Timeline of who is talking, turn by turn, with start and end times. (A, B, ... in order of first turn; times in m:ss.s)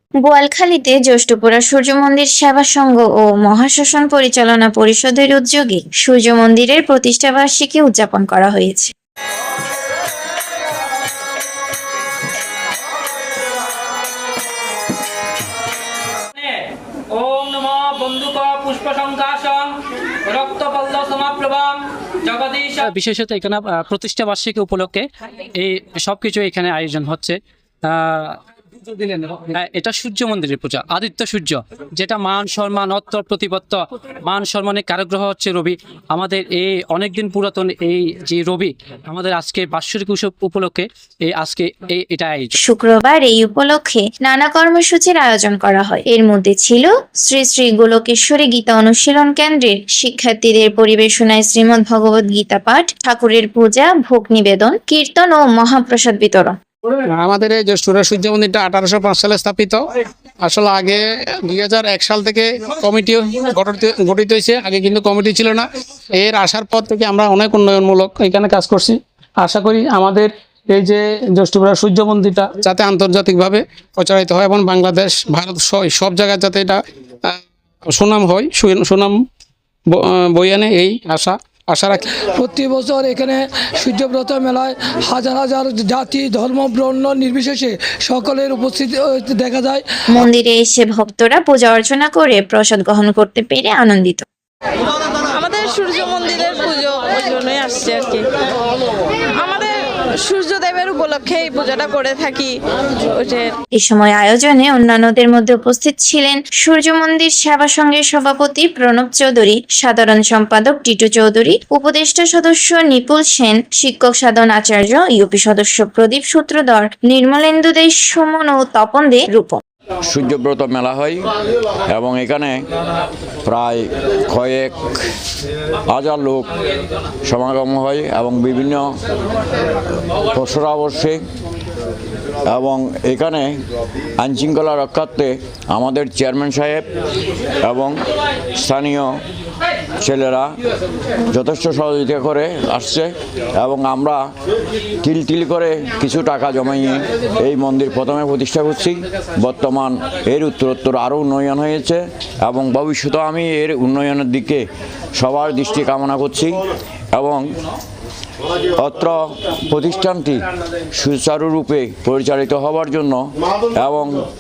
0:00.2-0:08.9 A
0:16.4-0:42.5 B
0:42.6-0:56.6 A
0:57.1-0:59.8 C
1:00.4-1:19.2 C
1:19.9-1:22.1 C
1:22.2-1:29.9 D
1:30.1-1:34.2 A
1:35.3-1:38.3 E
1:39.3-1:42.6 E
1:43.1-1:43.5 E
1:43.8-1:59.6 A
2:00.0-2:01.2 F
2:01.9-2:02.6 F
2:03.4-2:05.0 F
2:05.9-2:06.5 F
2:07.2-2:09.0 F
2:10.3-2:11.2 F
2:12.4-2:13.6 F
2:14.2-2:16.9 F
2:17.6-2:18.0 F
2:18.6-2:19.2 F
2:20.0-2:20.6 F
2:21.3-2:24.3 F
2:25.0-2:37.6 F
2:38.8-2:44.2 F